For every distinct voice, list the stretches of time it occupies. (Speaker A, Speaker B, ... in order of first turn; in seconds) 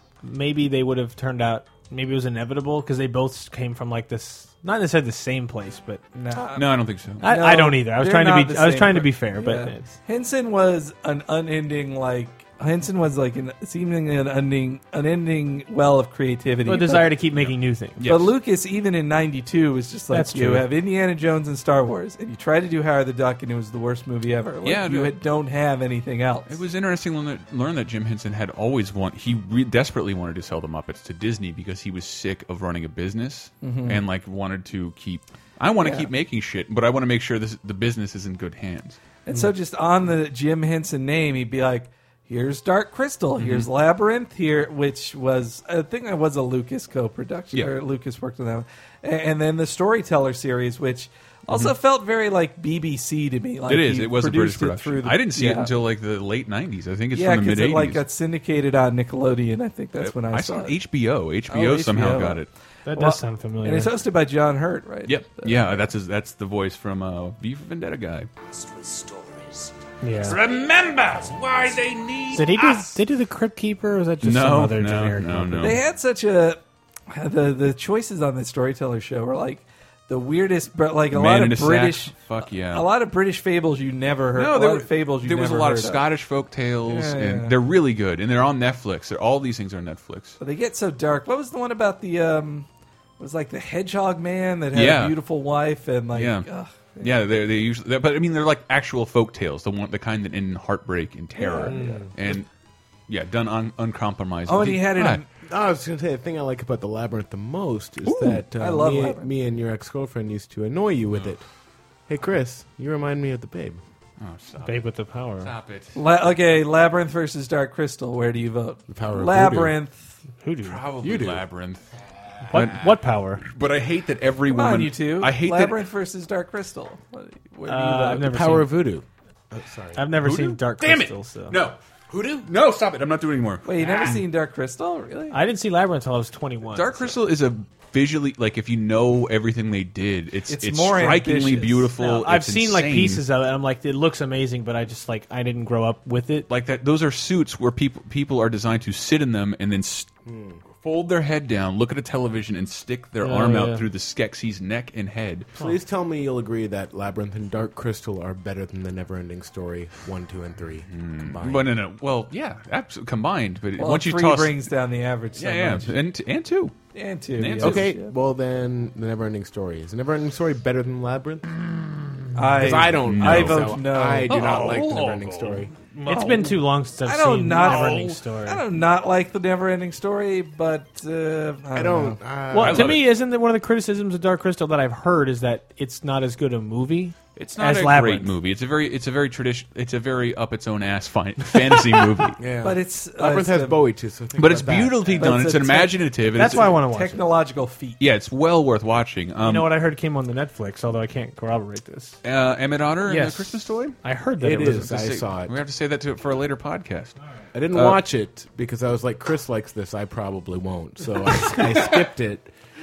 Speaker A: 0.2-6.0, 7.2-9.9, 16.6-18.0, 20.1-20.7, 62.9-63.9, 70.0-70.4, 72.3-75.7, 101.7-102.0, 114.6-115.5, 120.4-120.8, 122.5-123.4, 127.7-128.7, 129.9-131.6, 135.3-137.1, 142.0-146.5, 153.2-153.9, 174.5-175.1, 175.9-178.6, 182.5-188.3, 196.3-197.2, 199.4-202.2, 203.1-204.9
Speaker B: 6.1-17.1, 18.1-26.6, 33.6-34.0, 35.8-36.1, 39.2-55.7, 57.1-60.8, 61.5-65.7, 75.6-82.2, 82.7-86.0, 86.9-87.5, 90.4-92.7, 93.2-97.2, 101.4-102.1, 104.5-105.3, 108.5-109.3, 115.9-120.1, 124.5-128.3, 133.6-135.4, 140.5-141.9, 163.8-165.9, 166.9-168.1, 172.3-174.8, 176.1-182.2, 192.6-193.8, 195.2-198.0
Speaker C: 6.5-7.2, 17.4-18.3, 24.6-25.1, 26.5-39.0, 43.4-43.7, 51.5-51.7, 53.7-58.0, 60.0-62.5, 65.0-68.3, 70.2-72.9, 74.2-75.8, 81.1-82.9, 84.3-90.4, 94.7-95.2, 96.1-96.5, 97.0-102.5, 103.1-105.2, 114.2-114.8, 115.4-116.0, 120.6-121.8, 122.5-125.8, 130.2-134.2, 136.7-143.2, 146.5-150.1, 150.8-155.5, 160.9-164.7, 165.4-166.7, 167.4-167.9, 173.0-175.7, 177.6-178.0, 182.5-183.1, 187.4-192.4, 194.4-196.7, 198.0-199.7, 202.2-204.0, 204.7-207.2, 207.7-208.0
Speaker D: 68.4-69.7, 70.3-71.4
Speaker E: 105.5-111.4, 112.1-113.8, 118.9-119.7, 121.0-121.5, 128.2-130.1, 150.2-150.6, 155.6-161.7, 167.6-171.5, 172.6-175.7, 181.7-183.0, 192.4-195.4, 204.4-205.6, 207.5-212.5